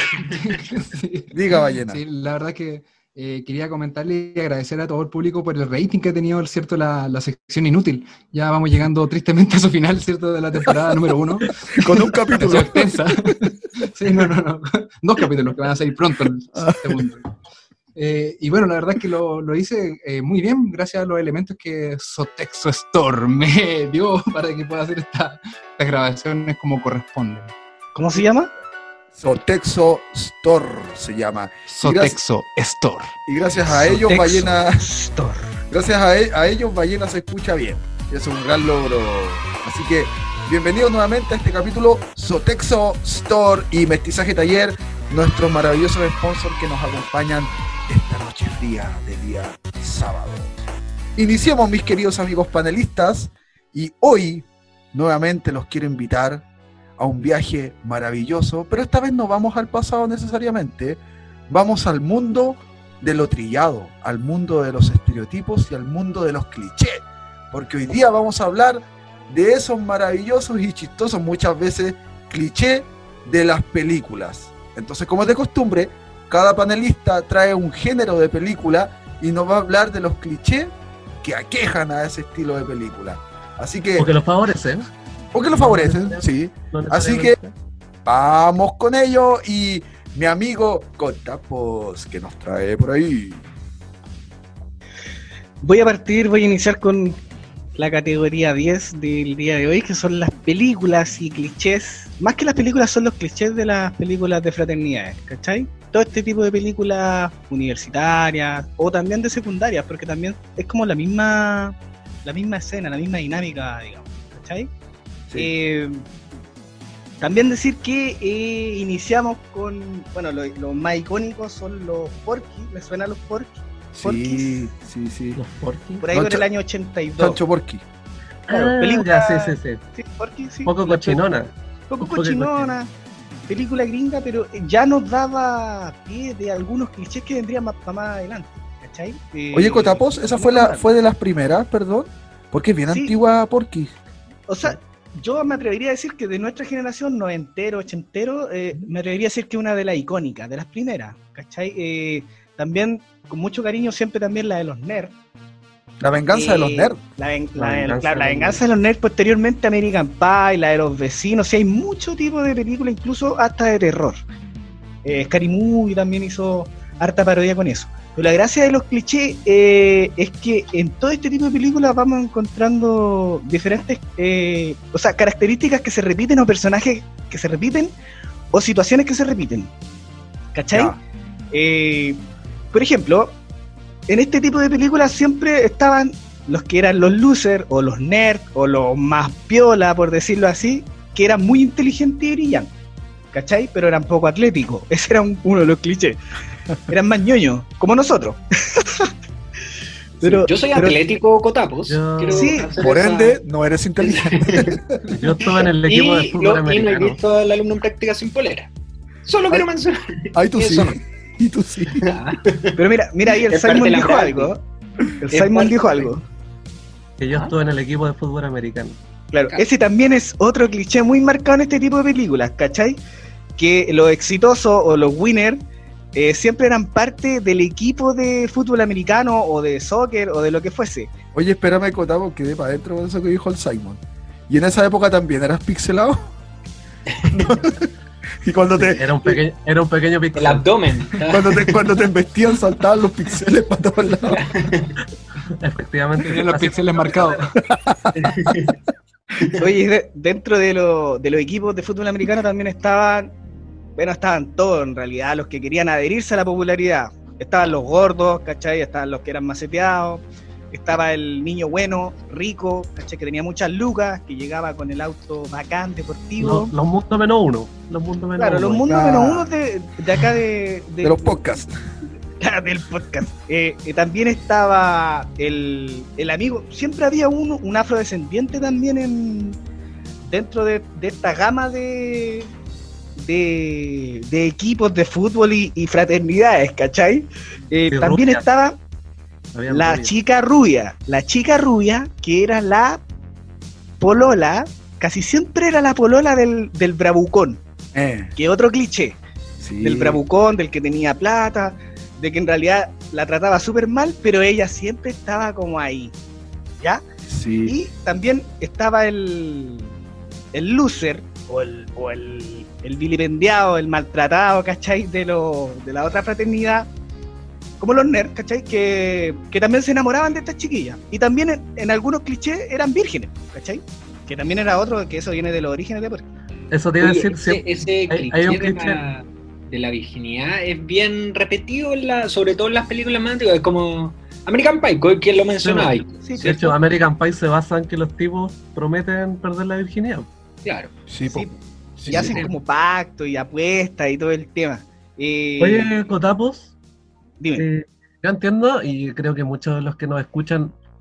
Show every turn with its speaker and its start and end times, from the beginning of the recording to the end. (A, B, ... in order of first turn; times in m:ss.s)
0:00.3-0:11.8 A
0:01.3-0:02.0 B
0:11.8-0:13.0 B
0:12.3-0:17.3 A
0:16.6-0:17.0 B
0:18.0-0:27.5 A
0:28.0-0:28.5 C
0:29.2-0:32.2 B
0:31.7-0:33.1 A
0:33.3-0:34.8 B
0:33.9-0:35.5 C
0:35.7-0:50.5 B
0:51.2-0:56.4 B
0:57.0-1:24.1 B
1:24.0-1:24.9 D
1:25.3-1:27.4 B
1:25.6-1:27.5 D
1:28.0-1:33.4 B
1:35.6-1:37.2 C
1:37.8-1:54.7 C
1:55.4-1:56.1 C
1:57.2-2:04.7 C
2:03.9-2:05.4 B
2:05.4-2:06.0 D
2:06.0-2:07.4 C
2:06.1-2:06.4 B
2:07.2-2:07.8 B
2:08.5-2:09.8 D
2:08.5-2:11.2 C
2:10.7-2:11.5 D
2:11.9-2:12.9 C
2:12.0-2:12.7 D
2:13.5-2:20.9 C
2:19.5-2:23.9 B
2:22.9-2:23.1 C
2:24.5-2:35.1 C
2:36.0-2:37.0 B
2:36.3-2:44.2 C
2:37.6-2:38.6 D
2:45.0-2:57.9 C
2:58.5-2:59.7 C
3:00.5-3:01.0 C
3:00.7-3:01.0 B
3:01.5-3:02.2 C
3:02.7-3:03.4 C
3:04.1-3:12.7 C
3:13.3-3:16.2 C
3:16.9-3:19.1 C
3:20.2-3:20.5 B
3:20.2-3:21.0 C
3:20.5-3:23.4 E
3:21.9-3:22.6 D
3:22.3-3:22.7 C
3:22.8-3:25.0 B
3:24.0-3:28.7 E
3:25.1-3:27.2 D
3:29.3-3:31.0 E
3:30.3-3:32.1 B
3:32.0-3:32.8 E
3:32.8-3:34.6 C
3:33.5-3:34.6 E
3:35.2-3:36.2 C
3:35.3-3:36.1 E
3:37.2-3:39.0 D
3:39.3-3:43.0 C
3:43.6-3:45.6 C
3:46.2-3:51.1 C
3:51.3-3:56.3 B
3:57.1-3:57.6 E
3:57.3-3:57.9 B
3:58.4-3:59.4 B
3:58.8-4:00.6 D
4:00.4-4:01.8 E
4:01.3-4:04.4 B
4:04.3-4:05.0 E
4:05.6-4:07.5 D
4:06.2-4:07.6 A
4:07.8-4:08.5 B
4:08.2-4:08.8 E
4:09.6-4:13.3 C
4:14.0-4:26.7 C
4:26.4-4:29.0 D
4:28.4-4:31.6 C
4:28.9-4:29.5 B
4:31.0-4:31.8 B
4:32.4-4:39.6 C
4:40.2-4:42.5 C
4:43.2-4:48.8 C
4:47.9-4:48.4 D
4:49.5-4:50.1 D
4:49.7-4:53.0 C
4:54.0-4:57.6 C
4:57.9-4:58.3 B
4:58.4-4:59.2 C
4:59.6-5:00.2 B
4:59.8-5:06.1 C
5:07.3-5:07.8 B
5:07.7-5:09.9 C
5:10.5-5:16.9 C
5:17.8-5:26.3 C
5:26.7-5:29.0 D
5:27.0-5:36.7 E
5:35.6-5:40.3 D
5:36.2-5:36.7 C
5:40.6-5:40.9 E
5:41.1-5:42.5 B
5:41.3-5:41.6 C
5:42.1-5:45.9 C
5:45.6-5:46.7 D
5:47.4-5:47.7 C
5:47.6-5:50.8 D